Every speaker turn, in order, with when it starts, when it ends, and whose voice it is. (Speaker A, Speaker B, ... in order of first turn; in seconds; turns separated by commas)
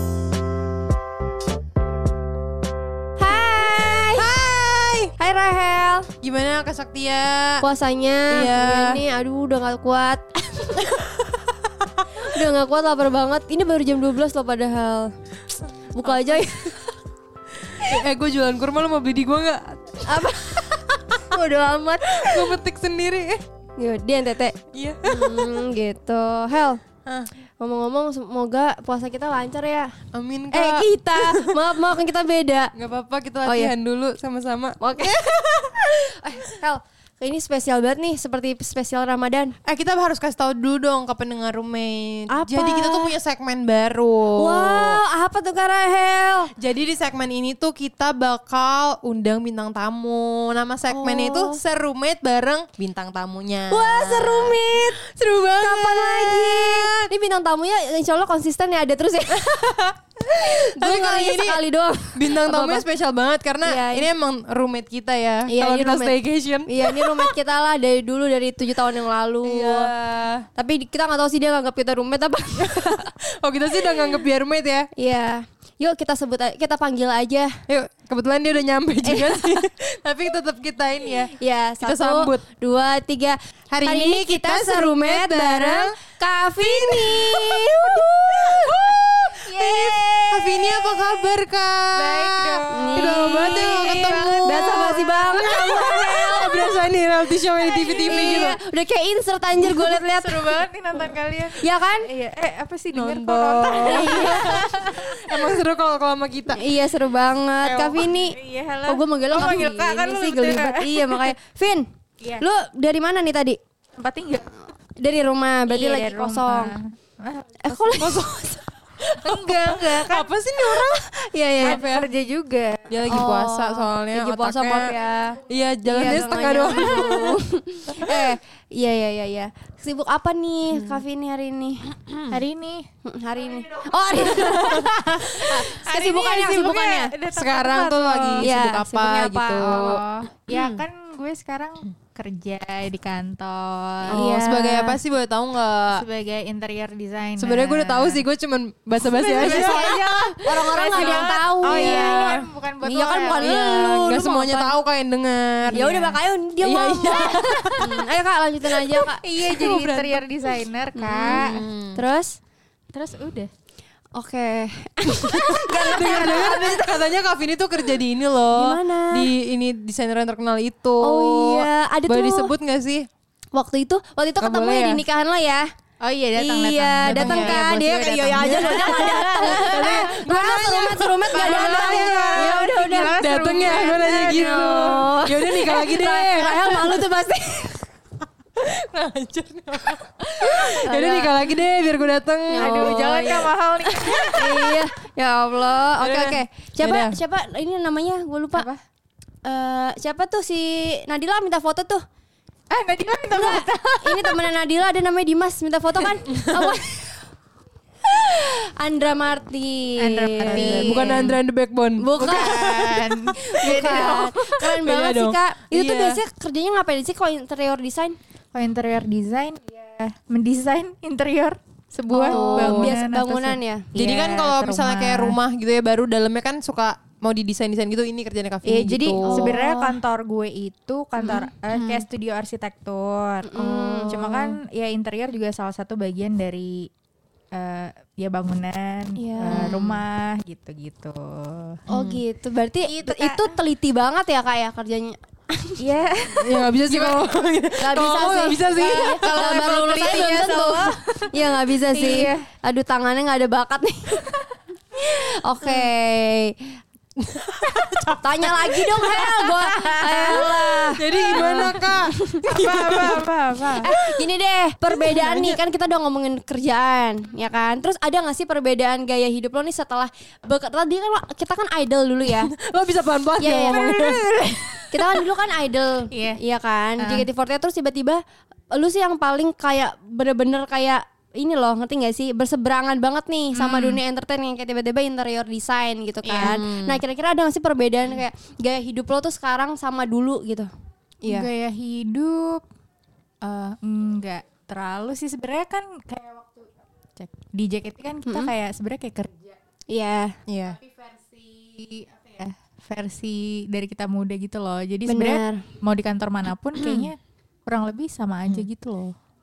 Speaker A: 3.2-4.3, Speaker B: 3.6-5.1, Speaker A: 5.2-6.1, Speaker B: 6.2-7.6, Speaker A: 7.6-11.0, Speaker B: 8.3-9.0, Speaker A: 12.2-15.1, Speaker A: 15.9-16.9, Speaker B: 16.0-16.5, Speaker B: 17.8-21.2, Speaker A: 20.0-22.6, Speaker B: 22.1-23.4, Speaker A: 23.8-26.8, Speaker B: 24.7-25.4, Speaker A: 27.6-29.9, Speaker B: 30.1-31.6, Speaker A: 30.5-32.7, Speaker B: 32.7-36.1, Speaker A: 33.4-33.7, Speaker A: 34.8-35.3, Speaker A: 35.8-39.5, Speaker B: 39.6-45.0, Speaker A: 42.3-43.1, Speaker A: 44.4-46.5, Speaker B: 46.5-57.1, Speaker A: 50.9-51.6, Speaker A: 53.7-62.8, Speaker B: 60.4-61.6, Speaker B: 62.1-67.3, Speaker A: 63.6-64.1, Speaker A: 65.5-66.2, Speaker A: 66.7-69.9, Speaker B: 69.4-70.5, Speaker A: 70.5-73.1, Speaker B: 72.6-74.9, Speaker A: 75.0-77.6, Speaker B: 77.7-82.4, Speaker A: 79.0-79.6, Speaker A: 81.4-90.8, Speaker B: 83.7-86.0, Speaker B: 86.6-98.6, Speaker C: 88.8-90.0, Speaker C: 91.9-96.2, Speaker A: 92.7-96.8, Speaker C: 97.7-98.5, Speaker A: 98.0-100.5, Speaker C: 99.6-105.6, Speaker A: 101.5-102.1, Speaker B: 102.9-106.6, Speaker A: 103.8-104.4, Speaker A: 106.5-113.6, Speaker B: 107.6-108.1, Speaker C: 108.2-111.3, Speaker C: 114.0-114.5, Speaker A: 115.0-116.8, Speaker C: 115.7-118.0, Speaker A: 117.6-118.5, Speaker B: 118.0-121.1, Speaker C: 119.2-120.3, Speaker A: 120.6-121.8, Speaker C: 121.6-123.1, Speaker B: 121.6-122.1, Speaker B: 122.9-124.9, Speaker A: 123.1-131.8, Speaker B: 125.5-128.4, Speaker C: 126.4-127.4, Speaker B: 130.7-131.0, Speaker B: 132.1-132.4, Speaker C: 132.3-132.9, Speaker A: 133.0-137.1, Speaker C: 133.4-138.5, Speaker B: 134.4-134.9, Speaker B: 136.7-140.8, Speaker A: 138.4-139.9, Speaker C: 139.6-144.3, Speaker A: 144.1-145.0, Speaker B: 144.1-146.1, Speaker C: 145.9-148.2, Speaker B: 147.4-149.9, Speaker C: 149.0-153.8, Speaker A: 149.3-154.7, Speaker B: 150.8-152.5, Speaker B: 153.4-157.9, Speaker A: 155.7-159.2, Speaker C: 157.1-157.8, Speaker C: 159.2-161.7, Speaker B: 159.4-160.2, Speaker A: 160.9-162.4, Speaker B: 161.3-162.0, Speaker C: 162.9-163.5, Speaker A: 164.1-167.0, Speaker B: 165.1-173.1, Speaker C: 166.0-166.6, Speaker A: 168.5-169.3, Speaker A: 171.0-172.5, Speaker A: 173.5-175.7, Speaker B: 174.4-175.0, Speaker C: 176.0-180.2, Speaker A: 176.3-187.8, Speaker B: 177.1-177.7, Speaker B: 178.4-187.1, Speaker C: 181.3-184.7, Speaker B: 188.6-194.2, Speaker C: 190.4-190.8, Speaker A: 190.8-191.3, Speaker A: 192.5-193.4, Speaker C: 192.6-194.8, Speaker A: 194.2-198.7, Speaker B: 196.0-197.2, Speaker C: 198.5-198.8, Speaker A: 199.4-202.0, Speaker C: 202.7-204.4, Speaker A: 203.3-207.3, Speaker B: 206.3-206.7, Speaker A: 208.0-211.4, Speaker C: 210.0-211.4, Speaker B: 210.4-216.2, Speaker A: 212.0-212.8, Speaker C: 212.1-214.4, Speaker A: 213.3-218.2, Speaker C: 218.5-225.4, Speaker A: 222.1-223.9, Speaker B: 222.2-222.9, Speaker B: 223.9-229.6, Speaker C: 228.6-236.9, Speaker A: 229.2-230.0, Speaker A: 231.2-231.9, Speaker A: 233.4-234.5, Speaker C: 237.5-241.8, Speaker A: 239.2-239.8, Speaker B: 239.5-240.0, Speaker A: 241.9-246.6, Speaker B: 241.9-242.2, Speaker C: 242.8-243.5, Speaker B: 246.3-249.7, Speaker C: 246.8-247.3, Speaker A: 247.8-254.3, Speaker C: 248.7-251.3, Speaker C: 251.9-252.4, Speaker A: 254.9-256.8, Speaker B: 257.2-259.4, Speaker A: 258.2-262.4, Speaker C: 259.2-261.9, Speaker B: 260.2-263.9, Speaker C: 262.4-263.9, Speaker A: 263.8-272.5, Speaker B: 264.9-265.6, Speaker B: 272.3-274.9, Speaker A: 273.4-274.2, Speaker A: 274.8-278.2, Speaker C: 276.1-276.4, Speaker C: 277.0-277.3, Speaker A: 278.7-290.7, Speaker C: 283.5-284.0, Speaker C: 286.3-286.6, Speaker B: 286.3-287.0, Speaker B: 291.2-291.5, Speaker C: 291.2-292.6, Speaker C: 293.4-299.6, Speaker A: 298.2-298.5, Speaker A: 299.9-300.4, Speaker B: 300.5-300.8, Speaker C: 300.7-309.1, Speaker A: 305.1-305.6